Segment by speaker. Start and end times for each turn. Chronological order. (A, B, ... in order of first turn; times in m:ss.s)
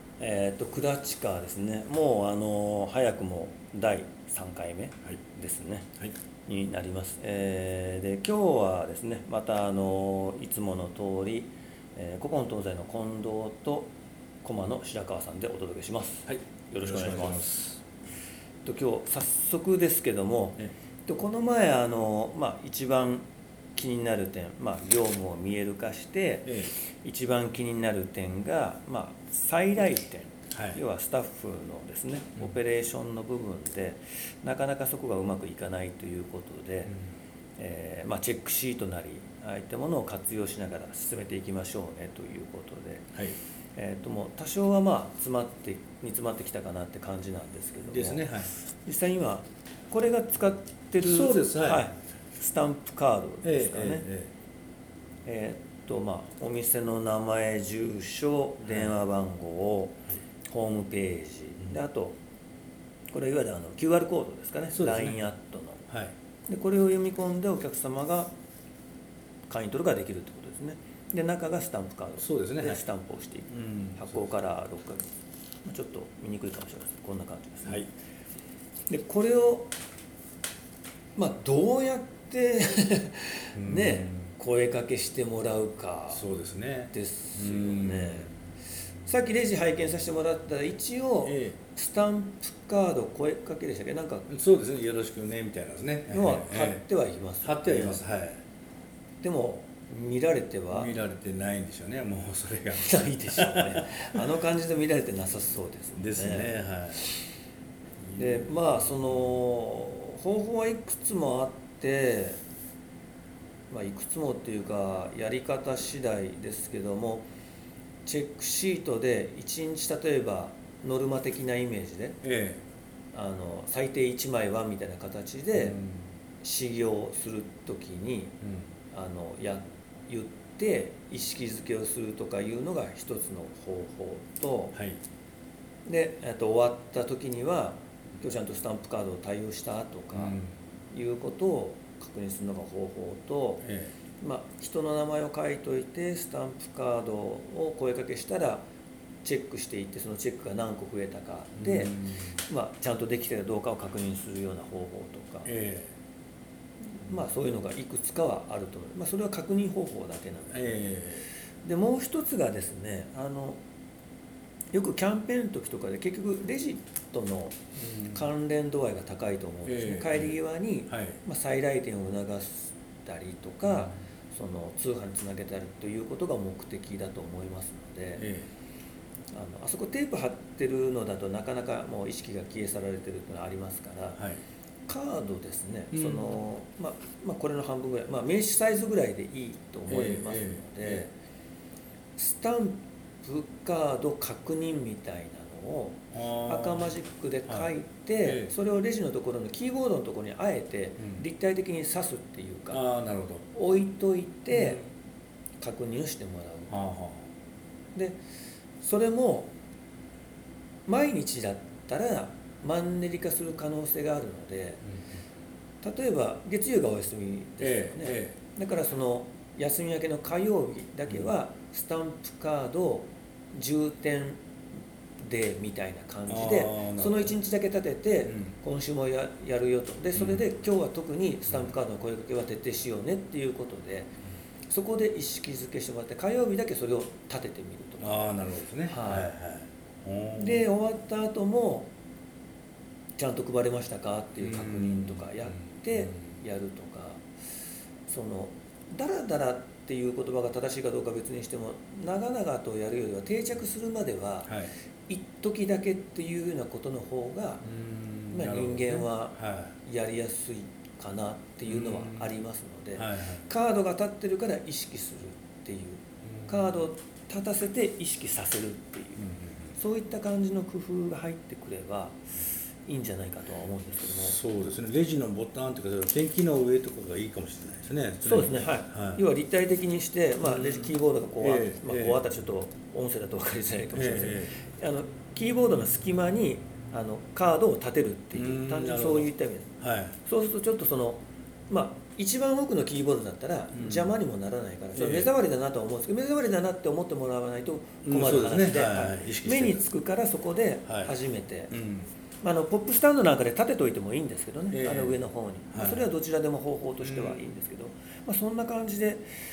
0:00.2-0:05.9 A
0:06.5-0:13.9 A
0:14.4-0:17.5 A
0:16.3-0:17.8 B
0:18.6-0:36.9 A
0:26.4-0:26.7 B
0:30.5-0:30.8 B
0:37.6-0:43.1 A
0:43.8-0:48.2 A
0:47.9-0:48.5 B
0:48.8-0:54.0 A
0:51.0-0:51.8 B
0:53.4-0:54.3 B
0:55.2-1:02.2 A
0:58.6-0:58.9 B
1:03.1-1:05.8 A
1:04.7-1:05.2 B
1:06.5-1:08.3 A
1:09.5-1:15.0 A
1:12.2-1:12.8 B
1:13.5-1:14.1 B
1:15.6-1:17.8 A
1:18.9-1:19.7 A
1:21.2-1:26.2 A
1:23.6-1:24.3 B
1:26.1-1:28.3 B
1:26.9-1:28.3 A
1:29.0-1:34.3 A
1:31.2-1:31.6 B
1:34.3-1:36.8 B
1:36.1-1:38.0 A
1:37.4-1:38.4 B
1:39.2-1:40.9 A
1:40.7-1:43.9 B
1:42.7-1:46.5 A
1:46.0-1:47.0 B
1:48.1-1:48.7 B
1:48.2-1:52.4 A
1:53.7-1:57.2 A
1:58.0-2:02.2 A
2:02.2-2:02.6 B
2:03.1-2:05.8 A
2:05.6-2:06.1 B
2:06.4-2:08.3 A
2:08.4-2:08.7 B
2:08.9-2:14.8 A
2:15.8-2:20.4 A
2:20.1-2:20.5 B
2:20.9-2:23.6 A
2:23.6-2:23.9 B
2:24.2-2:28.6 A
2:29.2-2:35.5 A
2:31.6-2:32.4 B
2:35.4-2:35.9 B
2:36.9-2:40.8 A
2:40.5-2:41.2 B
2:41.6-2:43.6 A
2:44.7-2:58.3 A
2:47.8-2:48.2 B
2:49.6-2:50.3 B
2:50.9-2:51.2 B
2:58.2-2:58.5 B
2:59.3-3:04.2 A
3:04.2-3:04.4 B
3:04.9-3:11.1 A
3:05.9-3:06.4 B
3:09.9-3:11.0 B
3:12.2-3:22.8 A
3:16.1-3:16.9 B
3:18.2-3:18.5 B
3:21.0-3:21.2 B
3:22.7-3:23.4 B
3:23.5-3:24.8 A
3:24.5-3:24.9 B
3:25.6-3:26.8 A
3:26.7-3:27.3 B
3:28.8-3:29.5 A
3:30.9-3:34.8 A
3:35.8-3:44.4 A
3:37.6-3:38.4 B
3:45.2-3:54.1 A
3:46.3-3:47.3 B
3:50.1-3:50.4 B
3:54.7-3:58.2 A
3:58.0-4:00.6 B
3:58.8-3:59.3 A
4:00.4-4:01.9 A
4:03.2-4:07.2 A
4:04.4-4:05.3 B
4:08.1-4:14.5 A
4:14.4-4:14.7 B
4:15.1-4:17.6 A
4:17.6-4:19.8 B
4:18.3-4:32.2 A
4:21.7-4:22.3 B
4:23.0-4:23.4 B
4:26.2-4:26.7 B
4:29.2-4:29.7 B
4:32.8-4:34.4 A
4:34.0-4:39.2 B
4:38.2-5:01.7 A
4:40.4-4:42.2 B
4:43.9-4:44.5 B
4:48.3-4:49.3 B
4:49.8-4:50.2 B
4:53.7-4:54.1 B
4:55.0-4:55.3 B
4:58.0-4:59.8 B
5:00.9-5:01.1 B
5:01.7-5:02.1 B
5:02.4-5:09.2 A
5:04.7-5:05.2 B
5:05.7-5:06.0 B
5:07.0-5:07.4 B